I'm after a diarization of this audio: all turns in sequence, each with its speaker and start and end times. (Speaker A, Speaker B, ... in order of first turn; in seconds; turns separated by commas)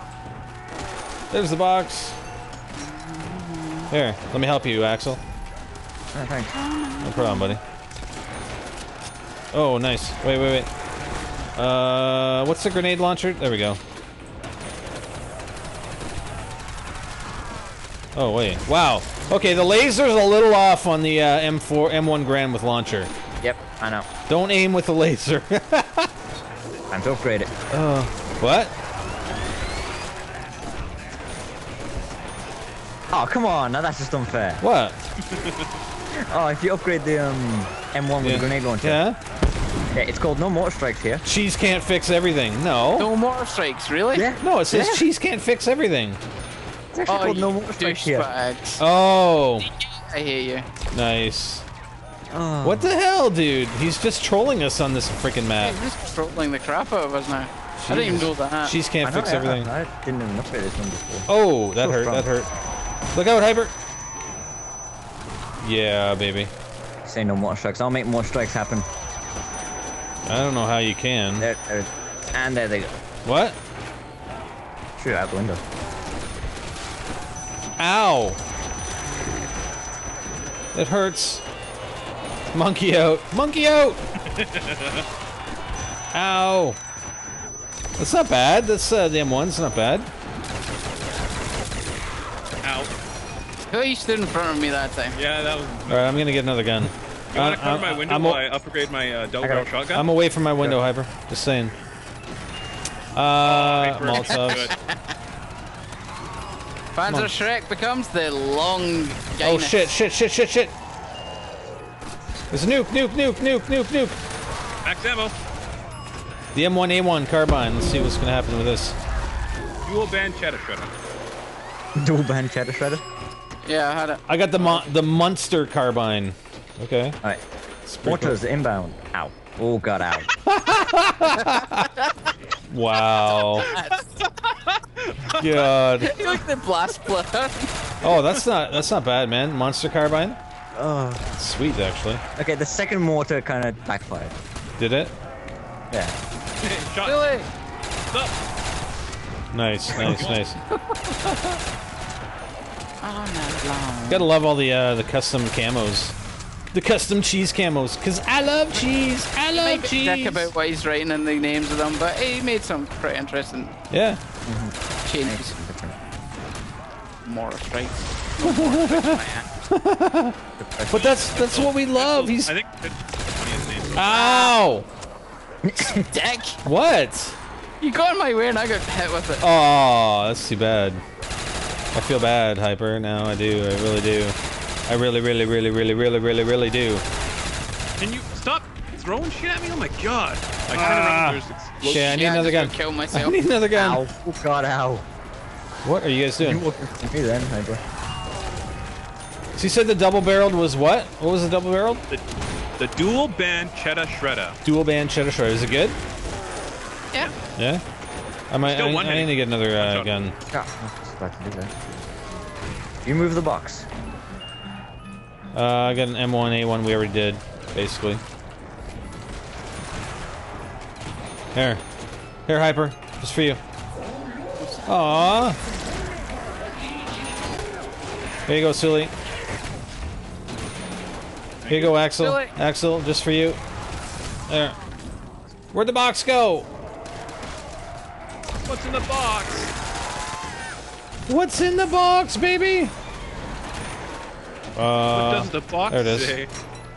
Speaker A: 1.3-2.2, Speaker B: 2.8-3.9, Speaker A: 3.9-5.2, Speaker C: 6.1-6.5, Speaker B: 6.5-7.6, Speaker A: 7.0-7.6, Speaker A: 9.5-10.7, Speaker A: 11.6-13.8, Speaker A: 18.1-23.1, Speaker C: 23.4-24.1, Speaker A: 24.3-26.1, Speaker C: 26.9-27.5, Speaker A: 27.7-28.7, Speaker C: 33.1-34.6, Speaker A: 34.6-35.0, Speaker D: 35.3-35.7, Speaker C: 36.1-39.0, Speaker A: 38.2-39.2, Speaker C: 39.9-41.2, Speaker A: 41.2-43.1, Speaker B: 43.0-44.3, Speaker C: 44.1-45.0, Speaker A: 44.4-46.2, Speaker C: 46.9-48.3, Speaker B: 47.1-48.8, Speaker A: 48.8-49.7, Speaker B: 49.6-50.7, Speaker A: 50.9-51.7, Speaker C: 52.3-53.0, Speaker A: 52.6-55.9, Speaker B: 55.6-58.8, Speaker A: 57.8-59.7, Speaker C: 59.0-62.3, Speaker A: 61.3-62.5, Speaker A: 63.1-63.7, Speaker A: 65.6-66.5, Speaker C: 67.0-68.9, Speaker A: 70.3-71.5, Speaker C: 71.4-72.9, Speaker A: 73.2-73.6, Speaker C: 75.0-75.6, Speaker A: 77.8-78.4, Speaker A: 80.7-81.4, Speaker A: 82.5-84.0, Speaker D: 84.3-85.0, Speaker A: 86.1-86.8, Speaker A: 88.0-90.1, Speaker D: 92.6-92.9, Speaker B: 93.7-95.2, Speaker D: 95.2-96.4, Speaker A: 95.9-98.5, Speaker D: 97.3-100.1, Speaker C: 99.4-99.7, Speaker A: 99.9-101.7, Speaker A: 103.1-104.7, Speaker D: 103.4-104.7, Speaker B: 104.5-105.0, Speaker B: 106.9-109.9, Speaker A: 107.1-107.3, Speaker A: 109.4-110.7, Speaker A: 112.5-114.2, Speaker D: 114.8-115.3, Speaker A: 116.5-119.0, Speaker D: 119.8-121.0, Speaker C: 122.0-123.0, Speaker B: 123.6-124.8, Speaker A: 124.3-127.2, Speaker A: 127.9-128.4, Speaker C: 128.0-130.3, Speaker A: 130.5-131.9, Speaker B: 131.3-132.1, Speaker A: 132.7-133.7, Speaker B: 133.6-134.0, Speaker D: 133.7-136.4, Speaker A: 135.4-136.2, Speaker B: 136.0-137.7, Speaker A: 138.0-140.4, Speaker C: 140.7-141.2, Speaker A: 141.4-142.2, Speaker C: 142.4-144.3, Speaker A: 144.8-145.1, Speaker D: 146.6-147.4, Speaker B: 147.0-147.5, Speaker A: 149.5-150.6, Speaker C: 149.9-150.3, Speaker D: 149.9-150.4, Speaker B: 150.7-151.6, Speaker B: 153.0-154.3, Speaker A: 154.1-156.2, Speaker A: 156.7-160.5, Speaker B: 159.5-163.7, Speaker A: 163.9-164.2, Speaker C: 164.4-166.0, Speaker B: 165.0-165.5, Speaker B: 167.2-169.5, Speaker A: 168.4-170.3, Speaker C: 170.6-171.1, Speaker A: 170.9-172.5, Speaker D: 170.9-174.1, Speaker A: 173.9-174.9, Speaker B: 174.1-174.6, Speaker C: 175.6-176.1, Speaker B: 175.8-176.6, Speaker A: 176.7-177.4, Speaker B: 177.8-179.5, Speaker A: 179.4-181.0, Speaker A: 181.9-187.0, Speaker D: 188.0-192.4, Speaker A: 190.7-194.0, Speaker B: 191.8-193.4, Speaker C: 193.7-195.1, Speaker A: 195.8-196.6, Speaker C: 196.4-197.8, Speaker A: 199.6-202.0, Speaker D: 202.8-204.6, Speaker A: 204.7-206.0, Speaker A: 207.6-207.8, Speaker A: 208.5-210.3, Speaker D: 208.6-210.1, Speaker C: 210.5-211.8, Speaker C: 213.1-213.9, Speaker A: 215.5-218.2, Speaker A: 221.5-221.8, Speaker A: 222.5-223.6, Speaker A: 224.9-225.6, Speaker A: 228.5-229.1, Speaker D: 231.6-232.0, Speaker A: 231.7-233.6, Speaker B: 232.2-232.5, Speaker A: 234.5-234.8, Speaker A: 235.7-236.7, Speaker D: 238.7-239.7, Speaker A: 241.3-242.9, Speaker A: 244.8-246.4, Speaker D: 245.1-246.5